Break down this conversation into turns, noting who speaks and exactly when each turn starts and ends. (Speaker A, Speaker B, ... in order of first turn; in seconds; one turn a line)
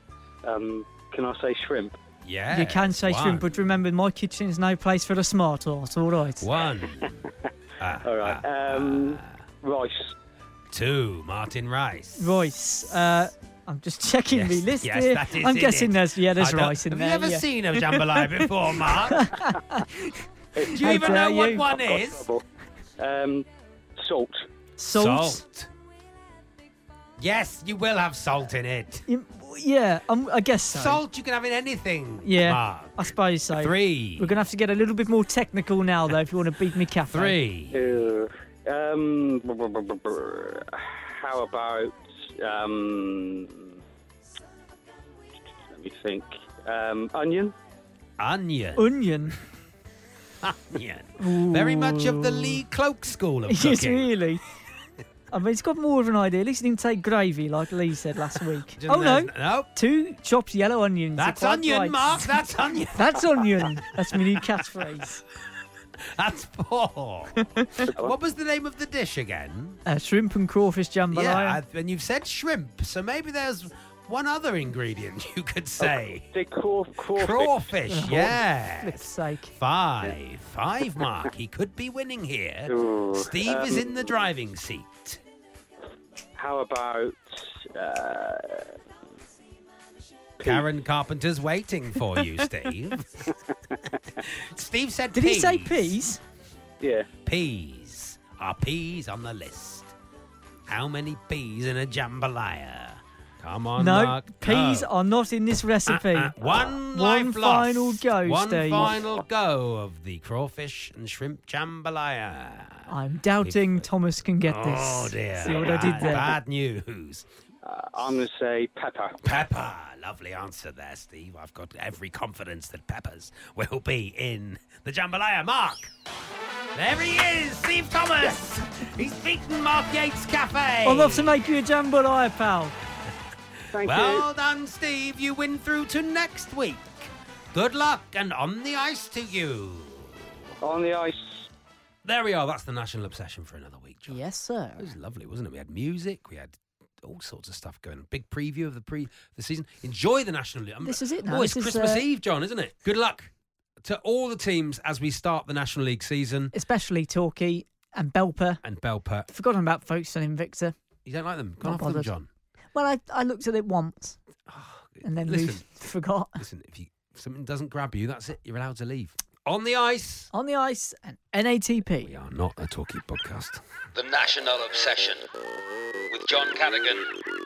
Speaker A: 0.4-2.0
Speaker B: 2.2-3.5
Speaker C: 2.5-6.5
Speaker B: 6.4-9.4
Speaker A: 8.0-10.1
Speaker B: 10.7-12.3
Speaker C: 12.2-18.0
Speaker B: 14.3-19.5
Speaker C: 18.8-21.7
Speaker A: 20.6-22.4
Speaker B: 20.7-22.3
Speaker A: 23.0-23.4
Speaker A: 24.0-24.4
Speaker C: 24.8-25.4
Speaker B: 24.9-25.7
Speaker B: 27.2-29.1
Speaker C: 29.1-31.0
Speaker B: 30.7-33.0
Speaker C: 32.2-37.4
Speaker B: 33.5-34.3
Speaker B: 37.1-37.9
Speaker A: 37.7-43.8
Speaker A: 45.7-47.5
Speaker B: 48.2-48.9
Speaker C: 48.8-49.4
Speaker B: 50.4-54.1
Speaker C: 51.2-52.6
Speaker C: 53.5-54.4
Speaker C: 55.3-62.4
Speaker B: 58.7-59.7
Speaker B: 61.1-63.8
Speaker C: 62.9-65.2
Speaker B: 66.0-69.8
Speaker C: 67.4-67.8
Speaker A: 67.9-68.1
Speaker C: 69.8-71.6
Speaker B: 71.1-76.2
Speaker A: 75.8-77.6
Speaker B: 77.1-85.2
Speaker C: 77.9-79.5
Speaker A: 82.7-84.0
Speaker A: 86.3-88.8
Speaker A: 90.4-90.6
Speaker B: 90.4-93.3
Speaker A: 93.7-94.0
Speaker B: 94.2-96.0
Speaker C: 95.1-96.2
Speaker A: 96.8-97.1
Speaker B: 97.2-99.9
Speaker B: 100.7-104.9
Speaker C: 103.8-109.0
Speaker B: 105.9-113.9
Speaker C: 112.9-116.3
Speaker B: 114.5-117.3
Speaker A: 115.7-116.1
Speaker A: 117.6-119.2
Speaker B: 119.2-125.9
Speaker B: 126.7-131.5
Speaker C: 130.8-132.7
Speaker A: 133.7-134.2
Speaker B: 133.7-140.5
Speaker A: 140.6-141.5
Speaker B: 142.0-144.2
Speaker C: 144.1-144.9
Speaker B: 144.8-156.5
Speaker C: 150.8-152.0
Speaker C: 156.5-158.6
Speaker B: 158.6-159.3
Speaker C: 159.3-160.7
Speaker B: 161.0-162.3
Speaker C: 161.6-162.1
Speaker C: 162.7-164.2
Speaker B: 164.4-165.6
Speaker C: 165.0-166.4
Speaker B: 166.4-170.3
Speaker C: 170.3-172.1
Speaker B: 172.0-173.6
Speaker D: 173.9-175.2
Speaker D: 176.1-177.1